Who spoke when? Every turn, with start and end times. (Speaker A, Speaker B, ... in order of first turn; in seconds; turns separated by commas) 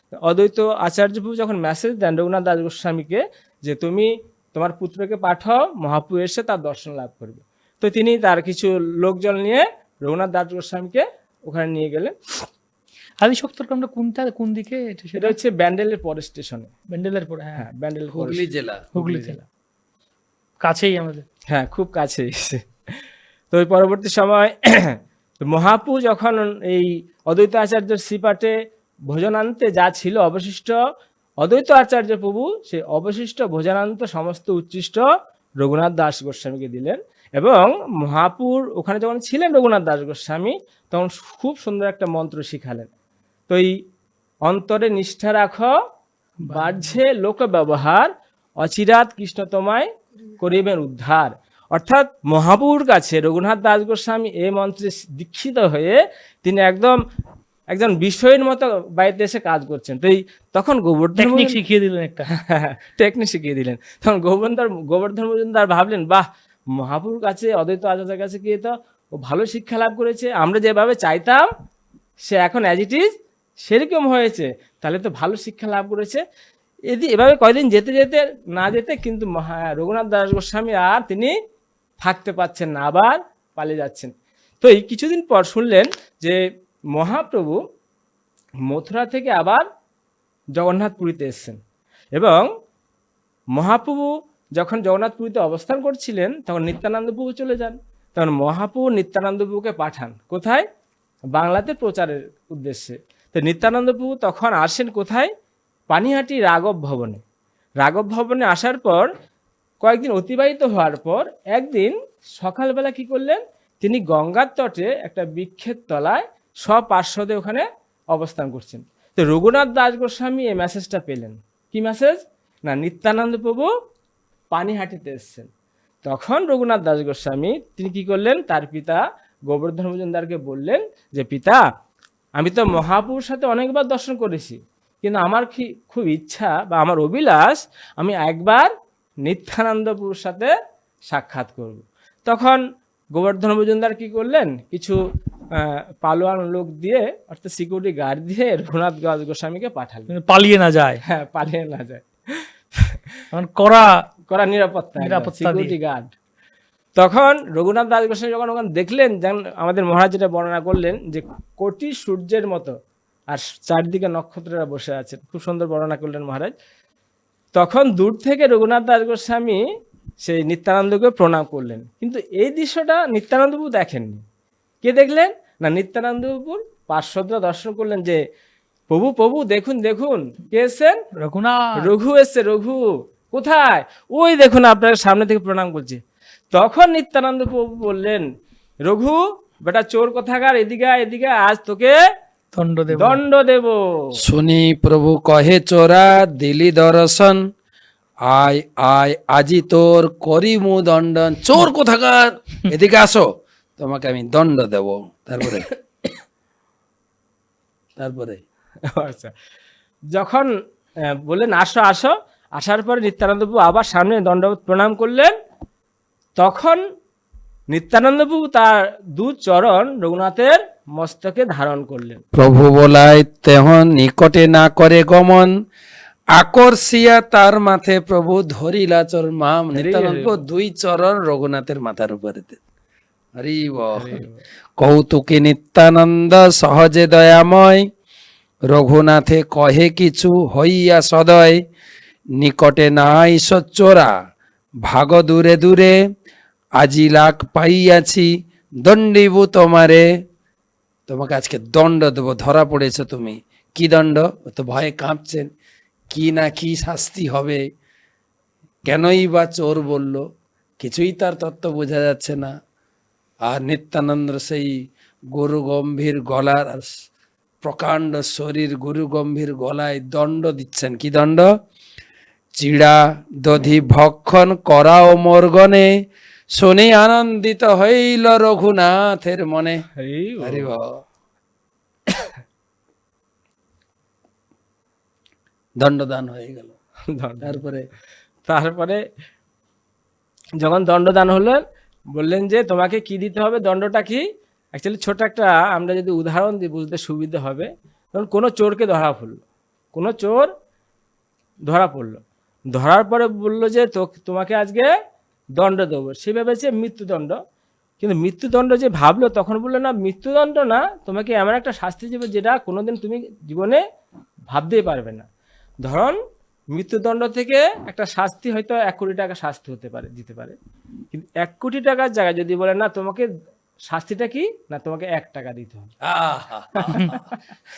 Speaker A: 0.2-12.1, Speaker B: 13.2-15.3, Speaker A: 15.2-16.7, Speaker B: 16.9-17.6, Speaker A: 17.6-18.4, Speaker C: 18.1-18.9, Speaker A: 18.9-19.4, Speaker B: 18.9-19.4, Speaker B: 20.6-21.2, Speaker A: 21.5-23.0, Speaker A: 23.5-28.5, Speaker A: 29.1-30.8, Speaker A: 31.4-35.0, Speaker A: 35.6-42.9, Speaker A: 44.4-45.7, Speaker B: 46.4-46.9, Speaker A: 46.5-57.0, Speaker A: 57.7-61.6, Speaker B: 61.2-62.3, Speaker A: 62.3-71.5, Speaker A: 72.2-73.1, Speaker A: 73.6-76.2, Speaker A: 76.9-81.3, Speaker A: 82.0-86.4, Speaker A: 86.9-87.6, Speaker A: 88.7-89.6, Speaker A: 90.5-91.6, Speaker A: 92.1-92.5, Speaker A: 93.5-100.6, Speaker A: 101.3-105.3, Speaker A: 105.9-107.2, Speaker A: 107.8-109.1, Speaker A: 109.8-123.7, Speaker A: 124.5-125.5, Speaker A: 126.0-131.6, Speaker A: 132.4-138.7, Speaker A: 139.2-140.5, Speaker A: 141.1-142.6, Speaker A: 143.1-145.0, Speaker A: 145.5-150.1, Speaker B: 150.1-151.0, Speaker A: 151.1-153.0, Speaker B: 153.3-153.9, Speaker A: 154.3-156.1, Speaker B: 155.0-155.7, Speaker A: 156.9-162.7, Speaker A: 163.3-166.5, Speaker A: 167.6-169.6, Speaker A: 170.2-174.2, Speaker A: 174.8-178.2, Speaker A: 178.9-181.0, Speaker B: 181.2-181.9, Speaker A: 181.8-186.0, Speaker A: 186.5-188.2, Speaker A: 188.8-191.9, Speaker B: 192.5-193.2, Speaker A: 192.9-194.2, Speaker C: 194.2-197.4, Speaker C: 198.2-205.7, Speaker C: 208.0-208.4, Speaker A: 208.9-209.3, Speaker A: 210.1-210.5, Speaker A: 211.1-215.3, Speaker A: 216.4-216.8, Speaker A: 217.7-222.2, Speaker C: 222.3-225.5, Speaker C: 226.3-232.6, Speaker A: 229.7-230.4, Speaker C: 233.3-234.2, Speaker A: 233.9-234.4, Speaker C: 234.8-237.8, Speaker C: 238.7-241.6, Speaker C: 242.4-244.1, Speaker C: 244.8-246.0, Speaker C: 246.8-248.3, Speaker C: 248.8-250.0, Speaker C: 251.1-255.5, Speaker C: 256.1-257.6, Speaker C: 258.9-260.2, Speaker C: 260.8-262.5, Speaker C: 263.5-264.7, Speaker C: 265.3-266.9, Speaker C: 267.6-271.5, Speaker C: 272.6-275.9, Speaker C: 276.5-279.8, Speaker A: 280.0-280.7, Speaker C: 280.4-280.9, Speaker C: 285.8-286.7, Speaker A: 287.1-287.6, Speaker C: 287.4-287.9, Speaker A: 288.5-289.0, Speaker A: 290.6-291.6, Speaker A: 292.1-299.4, Speaker A: 299.9-300.5, Speaker A: 301.6-302.2, Speaker A: 302.7-304.9, Speaker A: 305.6-307.4, Speaker A: 308.0-313.8, Speaker A: 314.5-315.2, Speaker A: 315.8-316.2, Speaker A: 316.7-320.5, Speaker A: 321.1-323.3, Speaker A: 323.9-325.9, Speaker C: 326.0-327.2, Speaker A: 326.8-327.3